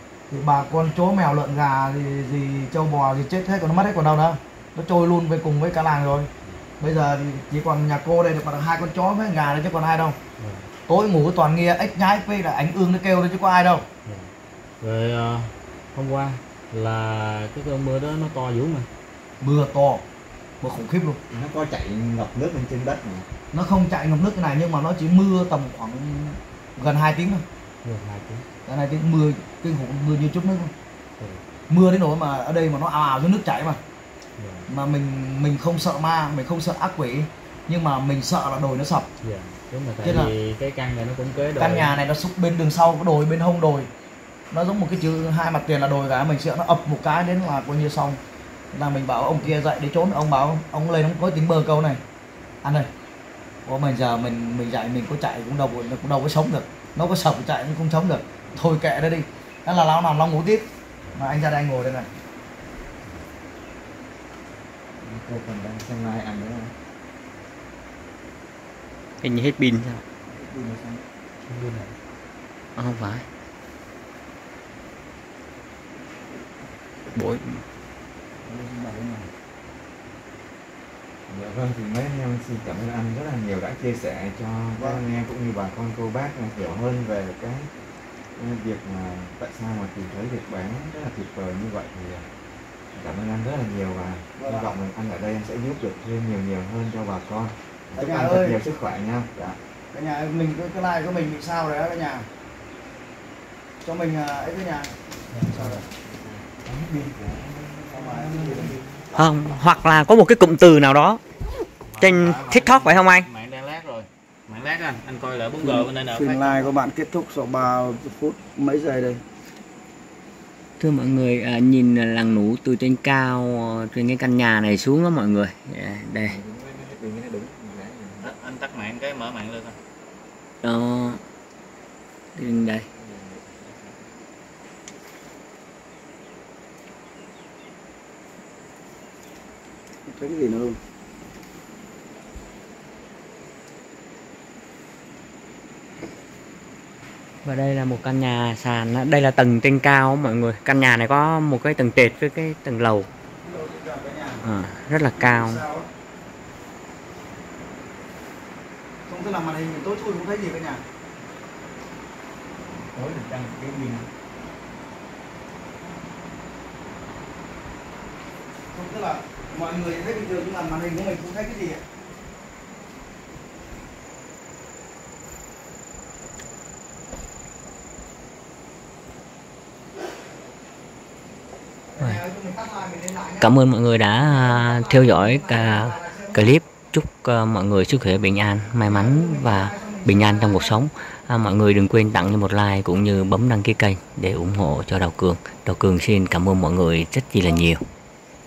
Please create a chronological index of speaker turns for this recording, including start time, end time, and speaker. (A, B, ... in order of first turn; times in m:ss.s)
0:00.3-0:06.3 A
0:06.8-0:10.2 A
0:10.4-0:10.7 B
0:10.9-0:13.8 A
0:14.0-0:18.9 B
0:19.4-0:20.0 A
0:20.6-0:21.2 A
0:21.3-0:23.3 C
0:23.5-0:27.4 A
0:27.8-0:28.4 B
0:28.6-0:30.7 A
0:31.7-0:33.8 A
0:34.4-0:34.7 B
0:34.7-0:39.1 A
0:39.2-0:42.0 B
0:40.0-0:40.3 A
0:41.6-0:43.9 A
0:44.5-0:48.2 A
0:48.7-0:52.0 A
0:53.6-1:02.1 A
1:05.0-1:06.7 C
1:09.2-1:10.0 D
1:10.3-1:11.0 A
1:11.5-1:11.9 B
1:12.8-1:13.2 D
1:17.1-1:17.6 D
1:18.5-1:19.3 A
1:21.3-1:27.7 C
1:24.8-1:25.0 A
1:28.4-1:32.3 C
1:32.9-1:39.6 C
1:34.4-1:34.7 A
1:38.0-1:38.6 A
1:39.9-1:42.3 A
1:43.8-1:44.9 A
1:45.5-1:45.8 C
1:45.5-1:45.8 A
1:46.5-1:49.2 C
1:47.9-1:48.8 A
1:49.1-1:51.2 D
1:51.9-1:56.7 B
1:52.0-1:53.3 D
1:55.6-1:59.2 A
2:00.8-2:06.4 D
2:06.2-2:08.3 C
2:08.2-2:09.8 B
2:10.6-2:11.2 D
2:12.4-2:12.8 D
2:13.0-2:14.0 C
2:20.0-2:20.8 A
2:27.4-2:33.1 D
2:33.4-2:34.4 A
2:34.4-2:35.6 D
2:35.2-2:35.9 A
2:39.1-2:40.8 A
2:42.9-2:44.0 A
2:48.7-2:51.8 A
3:01.9-3:03.6 A
3:03.4-3:17.8 D
3:04.1-3:06.5 A
3:08.8-3:10.8 A